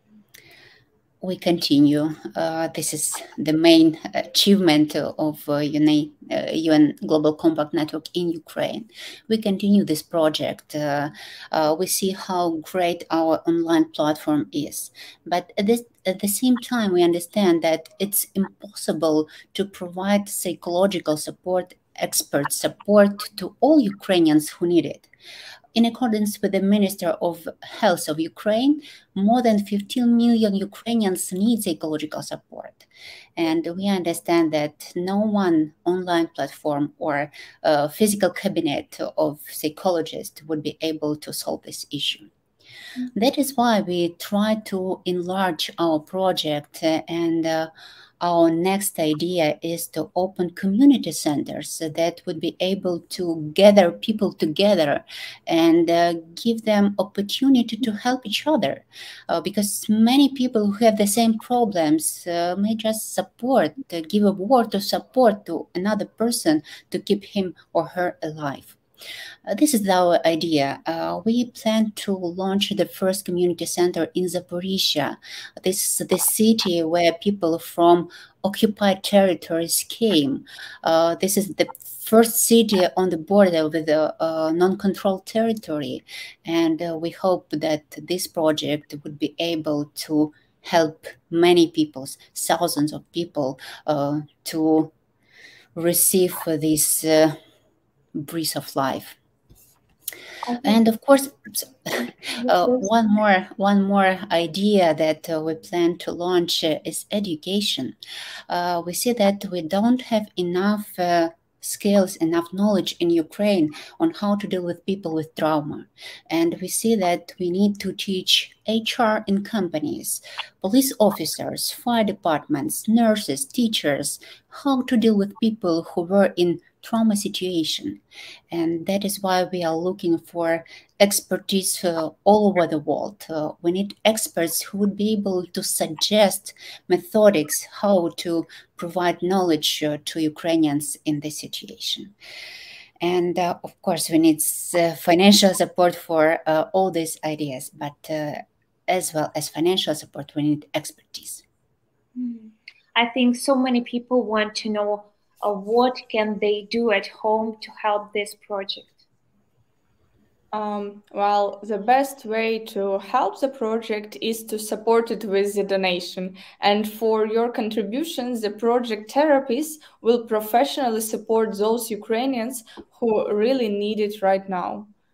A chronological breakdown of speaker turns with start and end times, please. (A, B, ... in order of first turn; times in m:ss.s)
0:01.2-0:25.1 A
0:25.8-0:42.3 A
0:43.1-1:08.8 A
1:09.5-1:34.9 A
1:35.8-1:37.4 A
1:38.2-1:39.2 A
1:40.4-1:40.8 B
1:40.6-1:48.0 A
1:42.4-1:42.9 B
1:48.5-2:22.1 A
2:23.0-2:31.4 A
2:32.2-2:39.0 B
2:40.5-2:54.9 C